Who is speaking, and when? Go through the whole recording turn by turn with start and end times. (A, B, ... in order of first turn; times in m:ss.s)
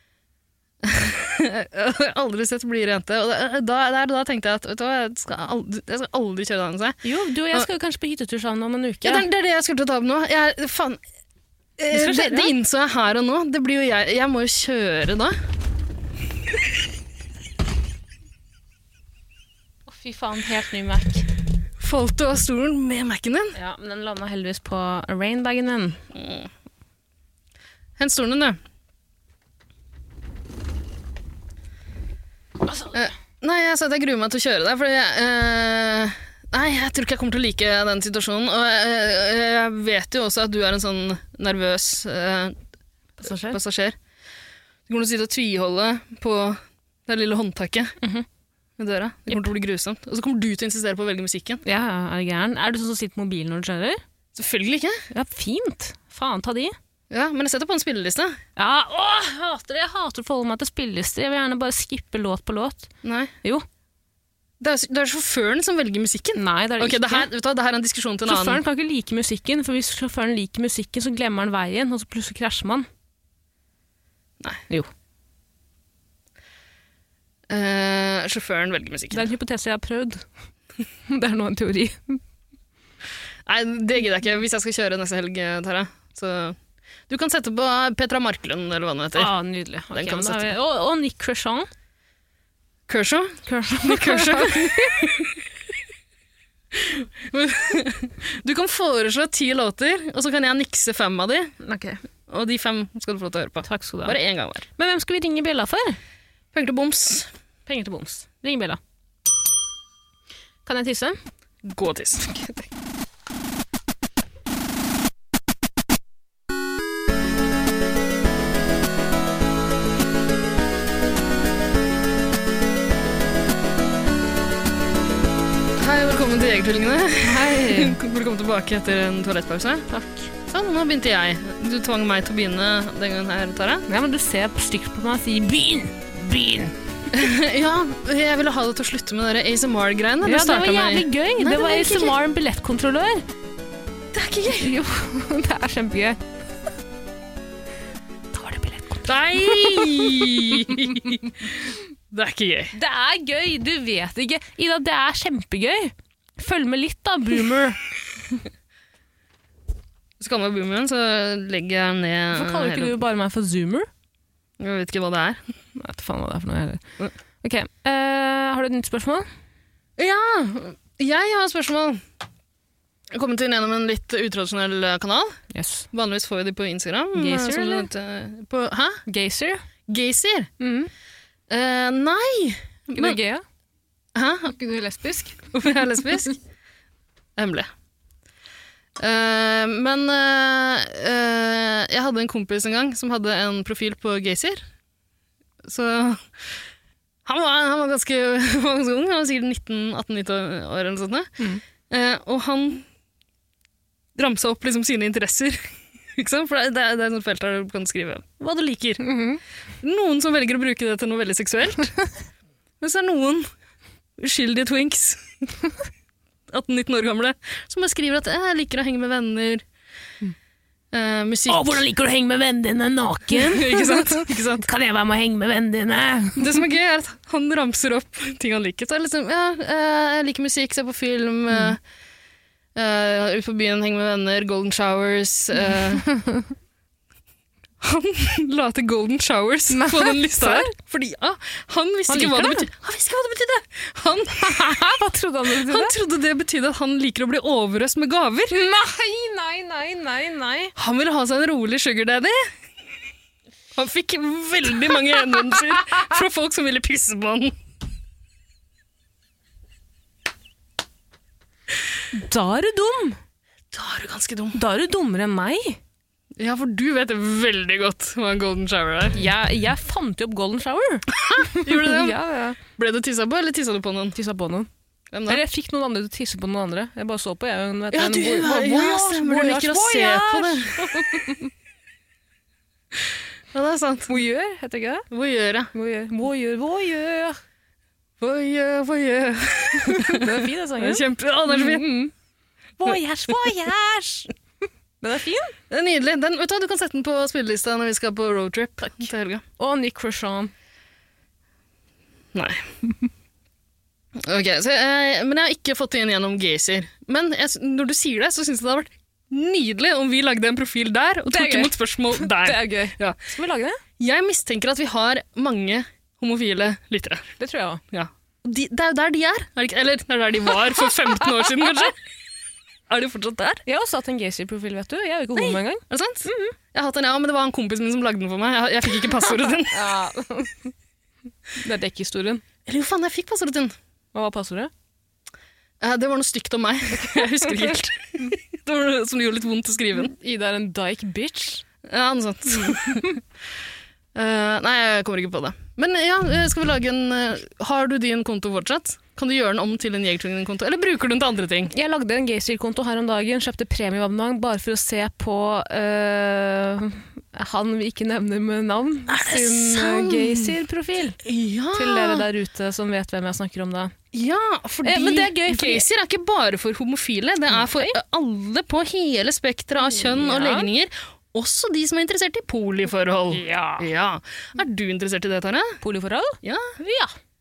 0:00.8-0:07.0 A
0:07.0-0:09.2 B
0:09.0-0:11.0 A
0:11.8-0:15.4 A
0:11.9-0:12.5 B
0:19.9-0:21.2 B
0:21.8-0:23.5 A
0:23.5-0:26.0 B
0:26.1-0:26.5 A
0:28.0-0:28.6 A
0:32.7-0:32.9 B
0:32.9-0:42.6 A
0:43.2-0:43.6 B
0:43.2-0:44.0 A
0:44.9-0:47.9 A
0:48.0-0:48.2 B
0:48.8-0:51.6 A
0:51.6-0:54.0 B
0:54.3-0:55.0 A
0:55.1-0:56.7 B
0:57.1-0:58.4 A
0:58.6-1:02.9 B
1:03.0-1:03.3 A
1:04.6-1:08.6 A
1:06.4-1:07.3 B
1:08.2-1:12.9 B
1:17.5-1:19.3 A
1:19.1-1:20.2 B
1:21.1-1:22.2 B
1:23.4-1:26.6 A
1:27.1-1:29.3 A
1:29.1-1:31.7 B
1:29.9-1:30.5 A
1:32.9-1:35.3 A
1:33.4-1:35.1 B
1:36.7-1:41.5 A
1:41.6-1:42.0 B
1:42.3-1:44.6 A
1:43.6-1:44.2 B
1:44.8-1:46.0 B
1:46.5-1:47.3 A
1:47.7-1:48.8 B
1:50.6-1:51.2 B
1:51.6-1:52.4 A
2:05.8-2:09.9 A
2:07.2-2:08.0 B
2:09.9-2:10.3 B
2:10.5-2:13.8 A
2:13.9-2:16.7 B
2:17.1-2:22.2 A
2:20.2-2:23.2 B
2:24.1-2:24.7 A
2:24.6-2:26.2 B
2:28.3-2:30.7 B
2:29.1-2:32.7 A
2:32.7-2:37.8 B
2:40.2-2:42.9 A
2:42.3-2:43.9 B
2:44.6-2:45.4 A
2:45.8-2:46.8 B
2:47.4-2:49.3 B
2:50.0-2:52.0 A
2:53.1-2:55.4 A
2:55.5-2:55.9 B
2:55.9-2:59.0 A
2:57.1-2:57.9 B
2:59.0-2:59.6 B
2:59.9-3:00.5 A
3:00.6-3:00.9 B
3:01.5-3:03.2 A
3:02.9-3:03.4 B
3:04.1-3:04.5 A
3:04.5-3:05.5 B
3:05.5-3:06.4 A
3:07.4-3:07.7 A
3:09.0-3:14.6 A
3:15.6-3:16.3 A
3:17.2-3:21.4 A
3:21.9-3:22.8 A
3:24.2-3:29.0 A
3:29.0-3:29.4 B
3:29.8-3:32.0 A
3:32.8-3:33.5 A
3:34.2-3:35.2 A
3:36.5-3:39.6 A
3:40.9-3:41.8 A
3:41.5-3:46.6 B
3:43.3-3:44.6 A
3:46.4-3:51.8 A
3:52.8-3:56.1 A
3:56.0-3:56.5 B
3:57.8-4:04.9 A
3:59.7-4:00.7 B
4:02.1-4:02.7 B
4:04.4-4:05.9 B
4:05.6-4:08.6 A
4:08.5-4:10.7 B
4:10.8-4:12.5 A
4:13.7-4:17.5 A
4:22.1-4:23.2 B
4:23.7-4:24.6 A
4:24.5-4:25.8 B
4:26.4-4:29.2 A
4:29.1-4:32.6 B
4:31.1-4:32.2 A
4:32.8-4:34.2 A
4:34.1-4:34.7 B
4:35.1-4:35.4 A
4:35.3-4:41.5 B
4:37.9-4:40.8 A
4:43.5-4:44.1 A
4:44.1-4:45.0 B
4:45.1-4:45.7 A
4:45.7-4:47.4 B
4:48.2-4:51.9 A
4:49.8-4:52.1 B
4:52.8-4:54.3 B
4:55.0-4:55.5 B
4:55.7-4:59.4 A
4:59.6-5:00.5 B
5:02.3-5:02.7 A
5:04.2-5:13.2 A
5:11.3-5:13.8 B
5:14.0-5:17.3 A
5:17.4-5:17.8 B
5:17.9-5:22.0 A
5:22.9-5:23.6 A
5:23.6-5:26.5 B
5:25.3-5:29.8 A
5:29.2-5:30.7 B
5:31.6-5:32.4 B
5:32.6-5:33.7 A
5:34.1-5:34.7 B
5:35.8-5:40.1 A
5:39.9-5:41.6 B
5:41.9-5:43.2 A
5:44.1-5:51.7 A
5:51.7-6:01.2 B
5:59.1-6:00.5 A
6:01.2-6:02.2 A
6:01.7-6:03.9 B
6:04.1-6:15.8 A
6:04.8-6:05.8 B
6:07.5-6:08.0 B
6:09.9-6:10.7 B
6:13.3-6:13.9 B
6:15.8-6:17.1 B
6:16.4-6:16.7 A